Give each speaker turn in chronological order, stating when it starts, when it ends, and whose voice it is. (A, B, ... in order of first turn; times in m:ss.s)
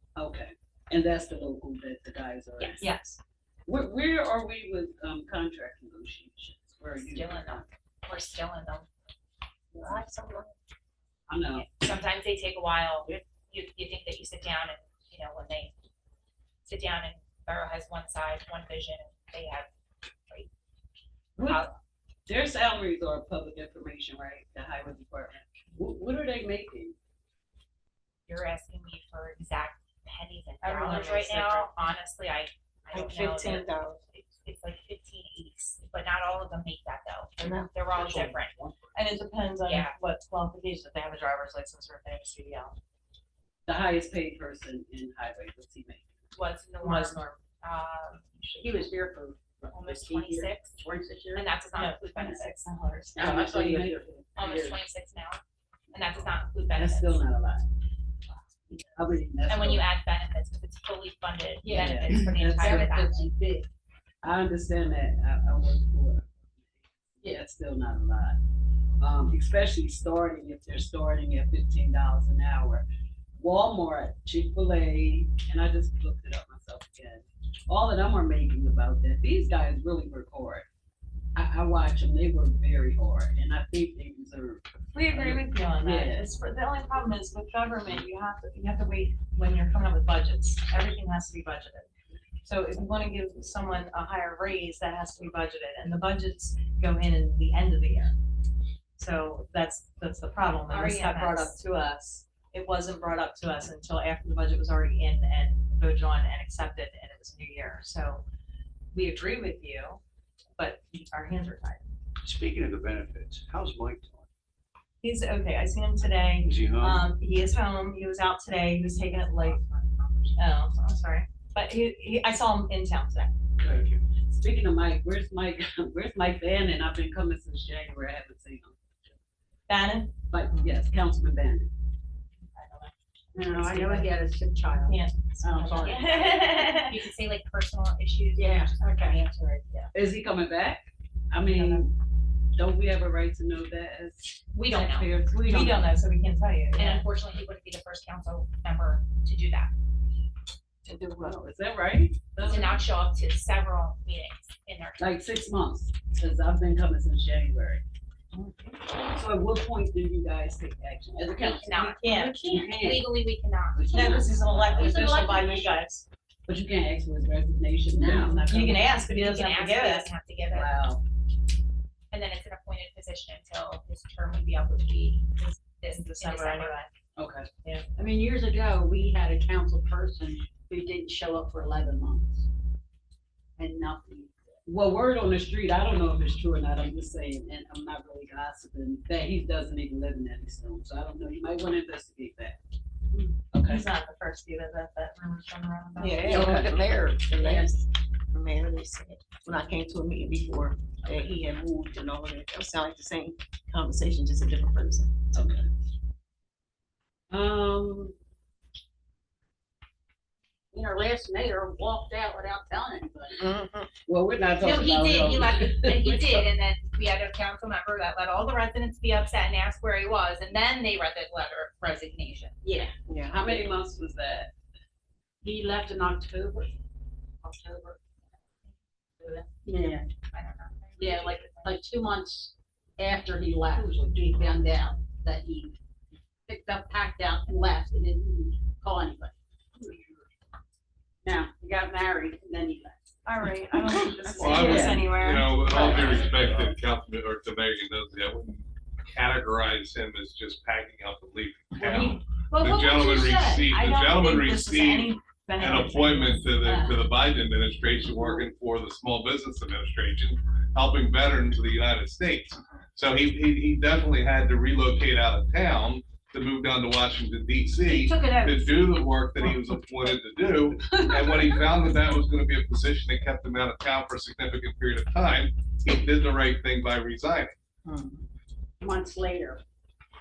0:00.2-0:02.9 A
0:02.6-0:02.9 B
0:02.8-0:03.2 C
0:03.6-0:07.6 A
0:07.0-0:08.9 B
0:09.8-0:10.5 D
0:10.2-0:10.4 C
0:11.3-0:11.7 A
0:11.6-0:15.7 B
0:16.6-0:19.7 B
0:21.4-0:21.6 A
0:21.4-0:21.8 B
0:22.3-0:26.9 A
0:28.3-0:38.6 B
0:30.6-0:31.8 C
0:32.9-0:34.0 D
0:37.4-0:37.7 D
0:37.9-0:38.9 E
0:38.9-0:42.8 C
0:39.6-0:39.9 B
0:43.7-0:46.1 A
0:46.3-0:48.3 B
0:46.8-0:47.4 C
0:48.6-0:51.5 F
0:49.7-0:50.8 B
0:51.3-0:52.6 B
0:51.7-0:53.3 C
0:53.2-0:54.1 A
0:53.2-0:54.8 F
0:54.4-0:57.2 B
0:56.7-0:57.6 A
0:58.7-0:59.9 A
0:59.5-1:03.2 B
1:01.6-1:03.7 F
1:01.7-1:02.6 A
1:04.2-1:08.4 A
1:09.0-1:12.8 A
1:13.4-1:20.6 A
1:21.3-1:26.3 A
1:24.9-1:31.9 C
1:32.4-1:38.2 C
1:39.0-1:48.2 C
1:40.7-1:41.6 B
1:48.9-1:50.0 C
1:50.6-1:51.9 C
1:52.2-1:54.3 E
1:55.0-1:59.6 C
1:56.4-1:57.1 E
1:59.8-2:00.2 B
2:00.3-2:03.3 C
2:03.6-2:08.9 A
2:03.6-2:04.0 E
2:09.7-2:10.2 C
2:10.3-2:11.7 A
2:12.5-2:12.9 C
2:13.3-2:16.2 F
2:13.4-2:14.1 C
2:14.8-2:17.0 C
2:15.7-2:19.2 B
2:18.4-2:19.2 F
2:19.9-2:21.9 A
2:21.5-2:21.9 C
2:22.5-2:25.8 A
2:24.5-2:25.1 B
2:25.4-2:27.1 C
2:26.7-2:29.7 B
2:30.9-2:31.3 D
2:31.2-2:32.8 A
2:32.4-2:35.2 B
2:35.0-2:37.8 A
2:38.4-2:43.1 A
2:41.4-2:44.3 B
2:41.8-2:42.4 C
2:43.7-2:45.1 A
2:43.9-2:46.0 C
2:44.8-2:45.7 F
2:46.5-2:49.0 A
2:48.3-2:50.1 C
2:49.0-2:50.7 B
2:50.5-2:51.0 A
2:52.1-2:56.8 B
2:55.9-2:56.9 C
2:57.2-2:57.5 A
2:58.0-3:02.4 F
3:03.6-3:04.3 F
3:04.6-3:12.6 A
3:13.5-3:13.8 A
3:13.7-3:17.7 C
3:16.0-3:16.7 D
3:16.2-3:17.7 A
3:17.3-3:17.7 D
3:18.3-3:19.3 C
3:18.6-3:25.1 D
3:20.0-3:20.7 C
3:22.1-3:22.4 C
3:24.5-3:25.1 C
3:25.3-3:25.6 A
3:27.3-3:28.1 A
3:30.7-3:33.4 F
3:33.4-3:33.8 C
3:34.0-3:36.5 A
3:34.6-3:42.6 B
3:43.1-3:43.4 D
3:43.1-3:44.5 A
3:45.4-3:46.7 F
3:47.4-3:48.0 F
3:49.2-3:50.0 F
3:50.3-3:51.8 B
3:51.0-3:55.7 F
3:56.5-3:59.9 F
4:01.2-4:03.1 F
4:03.2-4:06.2 C
4:04.3-4:05.0 F
4:04.4-4:37.5 G
4:04.5-4:05.1 A
4:05.7-4:06.7 E
4:12.5-4:17.0 C
4:27.9-4:28.7 F
4:38.8-4:39.6 F